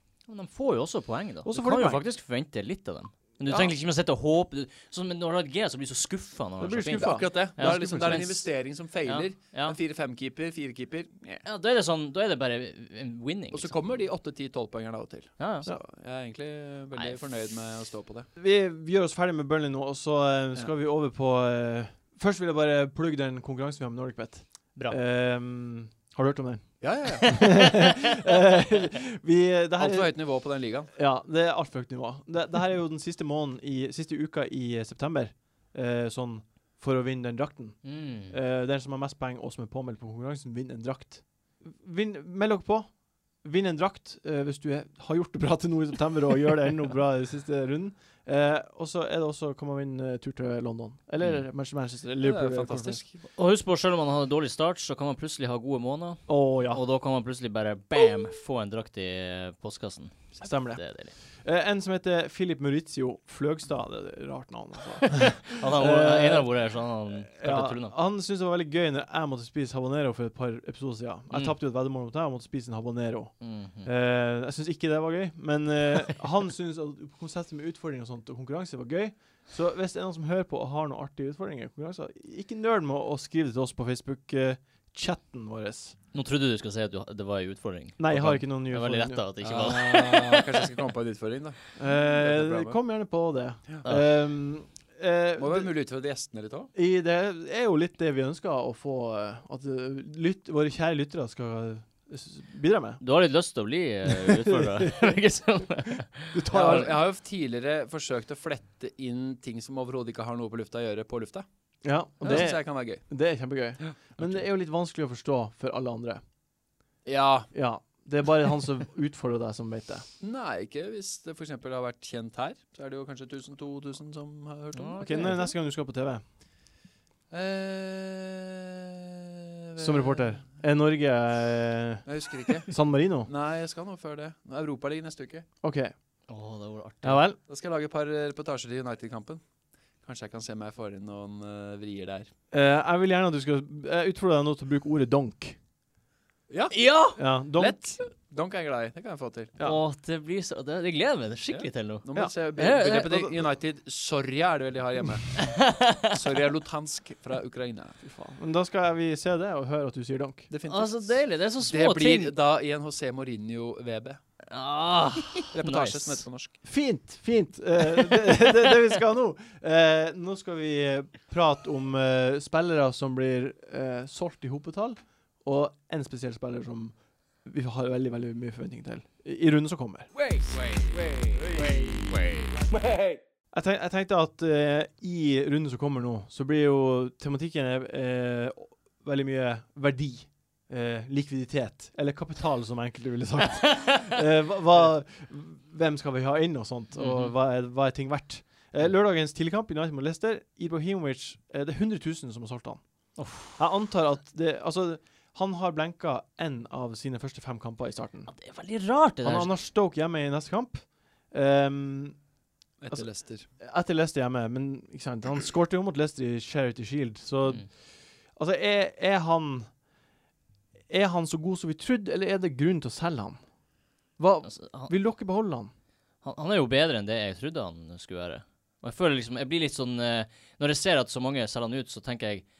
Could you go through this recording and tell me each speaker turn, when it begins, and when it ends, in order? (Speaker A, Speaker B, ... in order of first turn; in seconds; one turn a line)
Speaker A: 0.3-9.8
Speaker B: 1.4-2.0
Speaker B: 6.6-8.3
Speaker C: 7.0-11.4
Speaker A: 11.4-13.7
Speaker C: 13.5-18.3
Speaker A: 15.4-15.7
Speaker A: 16.9-17.2
Speaker B: 18.4-30.2
Speaker C: 26.8-27.6
Speaker C: 29.8-30.9
Speaker B: 30.9-53.0
Speaker A: 37.8-38.3
Speaker C: 52.2-53.2
Speaker A: 53.3-61.1
Speaker B: 56.3-56.8
Speaker B: 60.4-60.8
Speaker B: 61.3-66.5
Speaker A: 65.4-67.9
Speaker B: 67.1-86.0
Speaker A: 71.3-71.5
Speaker A: 73.4-73.9
Speaker A: 86.1-90.7
Speaker B: 88.0-89.2
Speaker C: 89.4-92.8
Speaker B: 91.8-95.7
Speaker A: 93.8-94.1
Speaker C: 95.4-96.7
Speaker B: 96.7-103.0
Speaker A: 103.0-106.9
Speaker B: 104.2-105.1
Speaker B: 106.3-107.0
Speaker C: 106.5-111.5
Speaker B: 111.8-116.2
Speaker C: 112.2-113.0
Speaker C: 117.0-117.5
Speaker B: 117.5-120.0
Speaker C: 120.2-125.5
Speaker A: 124.7-125.4
Speaker B: 125.0-126.2
Speaker C: 127.3-130.4
Speaker B: 129.8-132.1
Speaker C: 132.0-132.7
Speaker B: 132.6-133.3
Speaker C: 133.2-135.4
Speaker B: 135.6-135.9
Speaker A: 136.3-137.2
Speaker B: 137.0-137.4
Speaker C: 137.5-139.4
Speaker C: 140.0-142.3
Speaker B: 142.5-145.6
Speaker C: 146.5-146.8
Speaker A: 146.7-147.2
Speaker B: 147.2-147.8
Speaker C: 147.6-149.5
Speaker A: 149.6-153.2
Speaker C: 151.5-155.5
Speaker B: 153.0-153.3
Speaker A: 155.4-156.2
Speaker C: 156.0-158.0
Speaker B: 158.0-160.5
Speaker C: 160.5-164.2
Speaker A: 160.7-162.3
Speaker A: 164.5-166.2
Speaker C: 165.5-166.6
Speaker B: 166.6-180.1
Speaker C: 180.4-182.4
Speaker B: 183.5-202.8
Speaker A: 196.9-197.3
Speaker A: 203.2-203.6
Speaker B: 203.6-208.3
Speaker A: 208.3-209.5
Speaker B: 209.2-212.2
Speaker C: 212.8-213.5
Speaker B: 212.9-219.7
Speaker B: 220.9-223.4
Speaker B: 224.2-225.7
Speaker A: 224.4-224.9
Speaker A: 226.2-232.4